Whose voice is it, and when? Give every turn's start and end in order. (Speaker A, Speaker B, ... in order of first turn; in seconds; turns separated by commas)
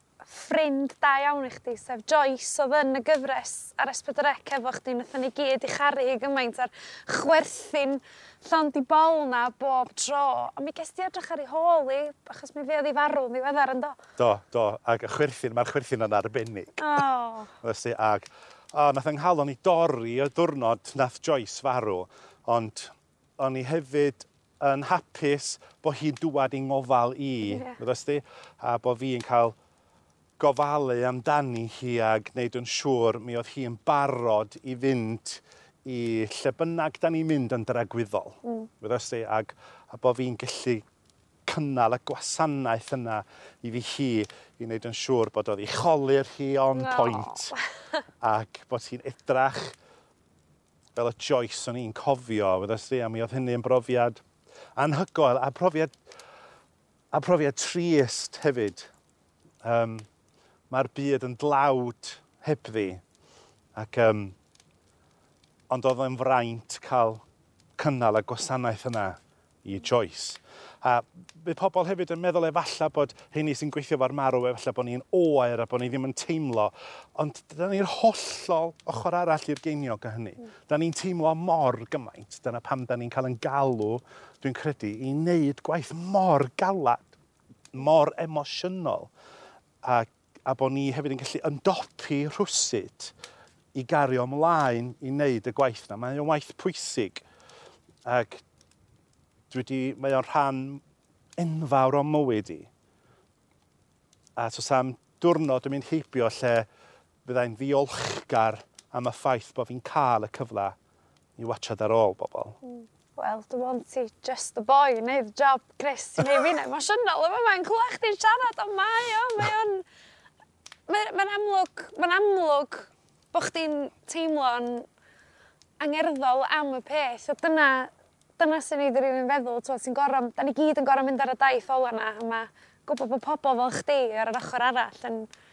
Speaker A: 0.3-14.0, Speaker B: 14.2-17.0, Speaker A: 16.8-17.5, Speaker B: 17.6-29.6, Speaker A: 27.4-27.8, Speaker B: 30.4-40.8, Speaker B: 41.5-47.5, Speaker A: 46.8-47.6, Speaker B: 48.2-49.8, Speaker B: 51.0-54.2, Speaker B: 54.8-56.0, Speaker B: 57.1-58.9, Speaker B: 59.6-60.1, Speaker B: 60.7-63.0, Speaker B: 63.8-64.4, Speaker B: 65.7-67.2, Speaker B: 67.8-87.1, Speaker B: 87.7-89.1, Speaker B: 89.8-93.1, Speaker B: 93.7-97.2, Speaker B: 98.0-98.4, Speaker B: 99.5-100.8, Speaker B: 101.4-102.7, Speaker B: 104.4-106.7, Speaker B: 107.2-110.8, Speaker B: 111.4-112.6, Speaker A: 112.8-119.8, Speaker A: 120.9-124.9, Speaker A: 125.8-135.3